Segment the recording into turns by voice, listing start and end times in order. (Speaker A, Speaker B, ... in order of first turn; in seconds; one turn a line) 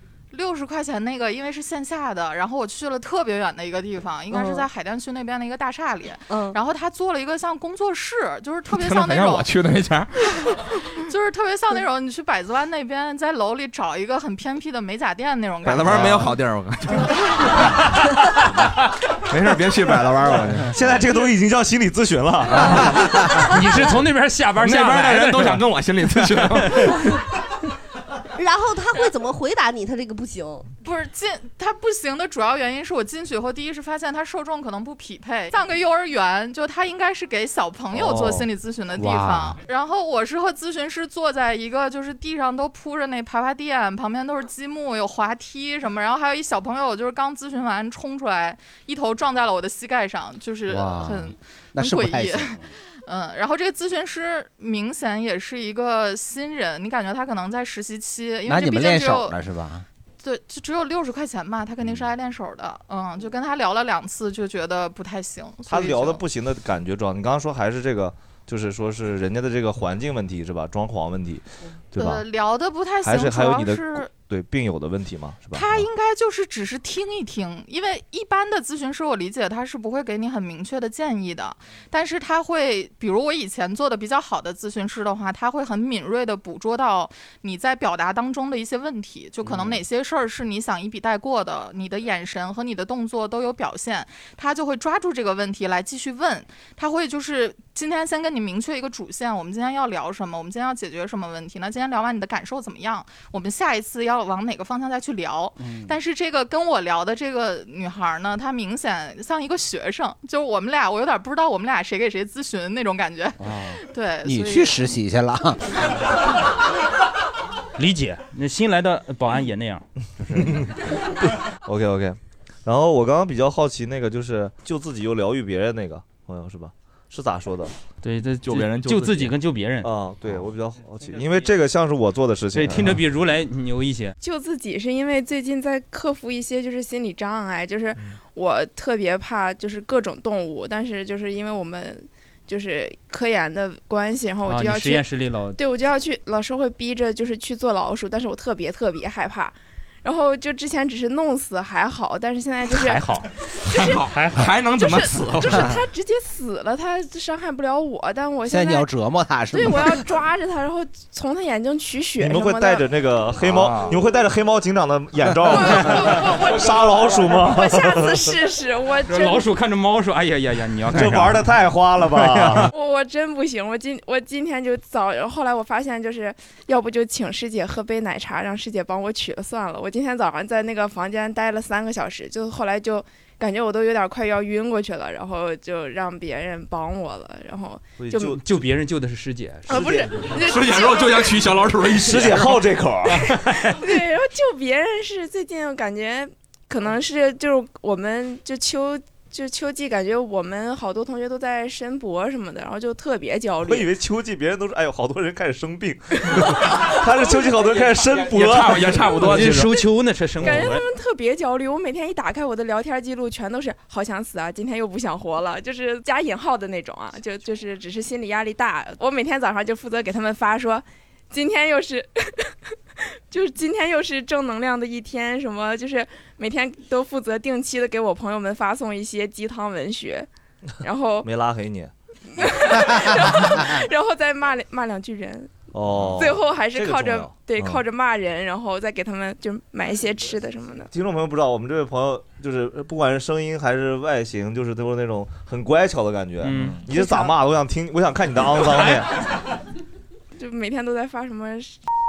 Speaker A: 0.3-9.5
Speaker B: 4.3-4.7
Speaker B: 6.3-6.6
Speaker C: 8.7-10.4
Speaker A: 11.0-16.0
Speaker C: 15.6-17.7
Speaker D: 15.9-16.2
Speaker C: 19.3-20.7
Speaker D: 20.7-23.4
Speaker E: 23.4-25.6
Speaker C: 24.6-27.0
Speaker E: 26.2-26.9
Speaker B: 28.4-30.6
Speaker A: 30.8-59.4
Speaker D: 37.9-38.4
Speaker D: 39.0-39.5
Speaker F: 50.7-52.6
Speaker F: 58.5-59.9
Speaker A: 60.2-66.2
Speaker D: 65.7-72.2
Speaker A: 72.0-74.1
Speaker D: 73.0-75.8
Speaker A: 75.5-114.9
Speaker F: 105.6-106.0
Speaker F: 113.4-115.7
Speaker E: 117.8-119.8
Speaker D: 120.3-120.7
Speaker D: 121.5-127.7
Speaker E: 128.0-129.9
Speaker C: 128.4-129.3
Speaker D: 129.8-133.0
Speaker E: 132.5-134.1
Speaker G: 134.2-153.1
Speaker E: 144.4-145.6
Speaker E: 152.7-153.2
Speaker C: 153.6-155.8
Speaker G: 153.7-154.0
Speaker E: 154.1-154.5
Speaker G: 154.8-158.9
Speaker F: 158.5-160.1
Speaker G: 159.5-162.9
Speaker D: 162.2-168.3
Speaker C: 163.4-164.0
Speaker G: 165.5-169.5
Speaker E: 169.1-171.6
Speaker D: 170.9-172.7
Speaker E: 172.1-172.7
Speaker G: 172.7-188.4
Speaker D: 188.0-188.4
Speaker E: 188.3-190.0
Speaker G: 189.7-191.4
Speaker D: 189.7-190.1
Speaker C: 190.4-192.6
Speaker D: 191.9-193.3
Speaker E: 193.3-193.8
Speaker G: 193.6-203.9
Speaker D: 203.6-209.1
Speaker C: 208.2-209.8
Speaker E: 208.5-210.8
Speaker G: 210.4-222.5
Speaker G: 223.3-230.3
Speaker G: 230.8-231.3
Speaker D: 231.2-232.5
Speaker G: 232.3-240.9
Speaker D: 235.7-237.8
Speaker D: 240.9-249.1
Speaker E: 246.4-246.8
Speaker G: 246.9-247.3
Speaker G: 250.4-251.8